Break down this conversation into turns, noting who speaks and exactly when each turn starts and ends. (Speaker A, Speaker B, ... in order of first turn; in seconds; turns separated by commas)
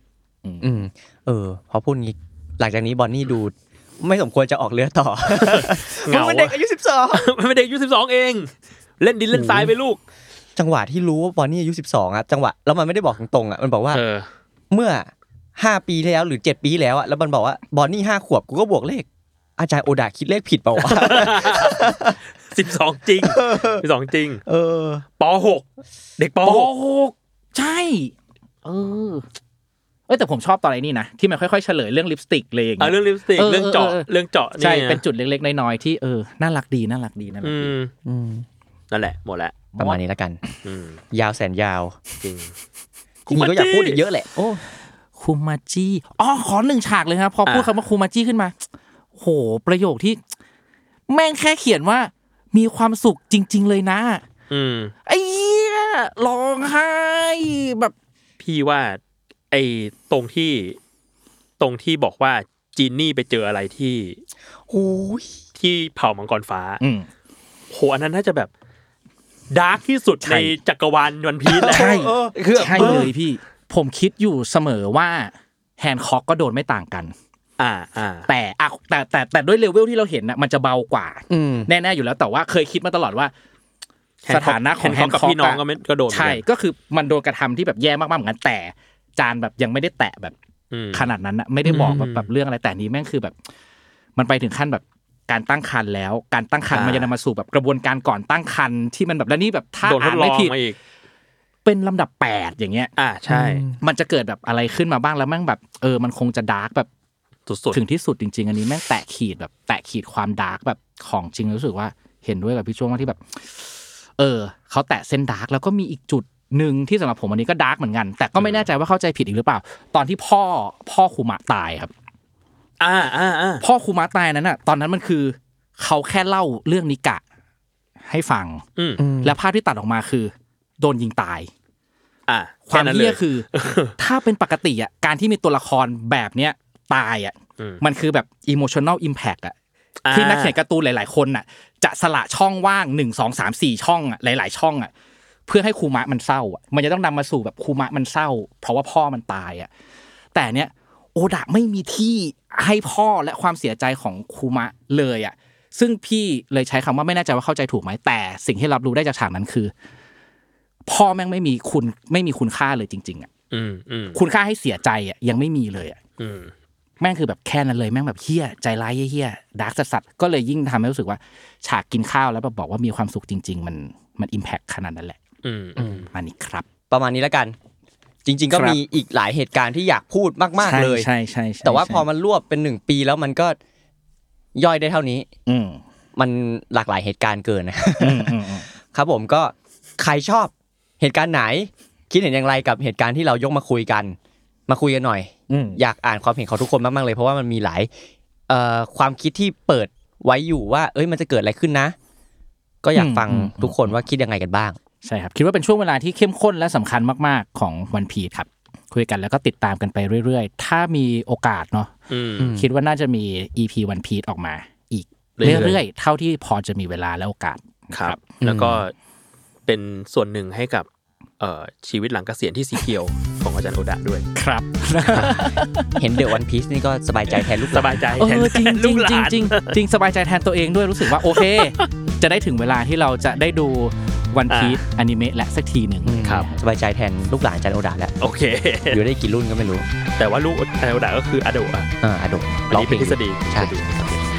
Speaker A: 0.4-0.8, Speaker B: 0.6-7.3, Speaker C: 5.3-6.6, Speaker C: 7.1-10.0, Speaker B: 9.3-9.7, Speaker B: 10.6-14.0, Speaker C: 13.9-14.3, Speaker B: 14.7-19.1, Speaker B: 19.6-22.2, Speaker C: 20.8-21.9, Speaker C: 22.5-24.4, Speaker B: 23.2-23.8, Speaker B: 24.4-25.0, Speaker C: 25.2-25.6, Speaker C: 26.2-26.7, Speaker A: 26.4-28.1, Speaker A: 28.6-29.2, Speaker A: 30.1-34.1, Speaker C: 32.8-35.0, Speaker A: 34.6-37.7, Speaker C: 37.4-37.9, Speaker B: 38.0-38.5, Speaker C: 38.9-39.7, Speaker B: 39.8-40.4, Speaker C: 40.6-41.0, Speaker B: 41.1-42.0, Speaker C: 42.2-42.5, Speaker B: 43.3-44.3, Speaker C: 43.3-44.0, Speaker A: 44.4-44.6, Speaker A: 45.2-48.6, Speaker A: 49.2-50.2, Speaker A: 51.1-54.2, Speaker C: 54.5-54.9, Speaker A: 55.1-57.9, Speaker C: 58.4-59.0, Speaker C: 59.5-60.8, Speaker C: 61.6-64.2, Speaker B: 64.7-65.3, Speaker C: 65.6-66.8, Speaker A: 66.8-67.1, Speaker C: 67.7-68.5, Speaker C: 69.5-71.9, Speaker A: 70.3-70.5, Speaker B: 71.5-73.1, Speaker A: 71.7-77.1, Speaker C: 72.5-73.1, Speaker C: 77.6-78.3, Speaker A: 78.3-83.3, Speaker B: 81.3-81.7, Speaker C: 84.2-86.4, Speaker A: 84.3-90.3, Speaker C: 90.7-91.1, Speaker A: 90.9-93.3, Speaker C: 91.7-92.3, Speaker A: 94.2-100.5, Speaker C: 96.7-97.1, Speaker C: 99.8-100.8, Speaker A: 101.6-102.9, Speaker C: 103.0-103.6, Speaker B: 103.3-103.8, Speaker A: 103.8-106.9, Speaker C: 107.5-107.8, Speaker A: 107.7-121.9, Speaker C: 118.4-118.7, Speaker C: 122.8-123.6, Speaker A: 123.6-127.2, Speaker A: 128.0-128.6, Speaker B: 129.0-129.3, Speaker A: 129.2-131.5, Speaker C: 132.3-133.9, Speaker A: 132.7-139.5, Speaker C: 140.0-140.5, Speaker A: 140.1-144.9, Speaker A: 145.5-149.7, Speaker A: 150.3-159.7, Speaker A: 160.9-163.3, Speaker C: 163.5-164.2, Speaker A: 164.1-166.0, Speaker C: 166.2-166.5, Speaker A: 167.0-175.2, Speaker C: 175.4-176.1, Speaker B: 175.8-176.1, Speaker A: 176.1-176.7, Speaker B: 176.9-177.6, Speaker B: 178.2-181.1, Speaker A: 178.5-178.8, Speaker A: 180.6-182.1, Speaker B: 181.6-183.6, Speaker B: 184.5-185.3, Speaker A: 185.5-185.8, Speaker B: 186.2-188.4, Speaker A: 188.0-188.7, Speaker B: 188.9-194.2, Speaker B: 194.7-197.9, Speaker A: 195.5-195.8, Speaker B: 198.5-201.9, Speaker B: 202.8-204.8, Speaker A: 202.9-203.9, Speaker A: 205.0-211.9, Speaker C: 212.1-212.5, Speaker B: 212.4-212.7, Speaker A: 212.5-218.2, Speaker C: 215.4-215.8, Speaker C: 217.9-218.9, Speaker B: 218.4-218.8, Speaker C: 219.7-220.8, Speaker C: 221.4-224.3, Speaker A: 224.3-225.9, Speaker C: 225.1-225.4, Speaker B: 225.9-228.3, Speaker C: 227.7-229.8, Speaker A: 228.2-236.3, Speaker C: 231.2-231.9, Speaker C: 234.5-234.8, Speaker B: 236.0-238.1, Speaker C: 238.2-239.0, Speaker B: 238.9-239.8, Speaker C: 240.2-241.9, Speaker B: 242.0-244.2, Speaker C: 242.7-243.9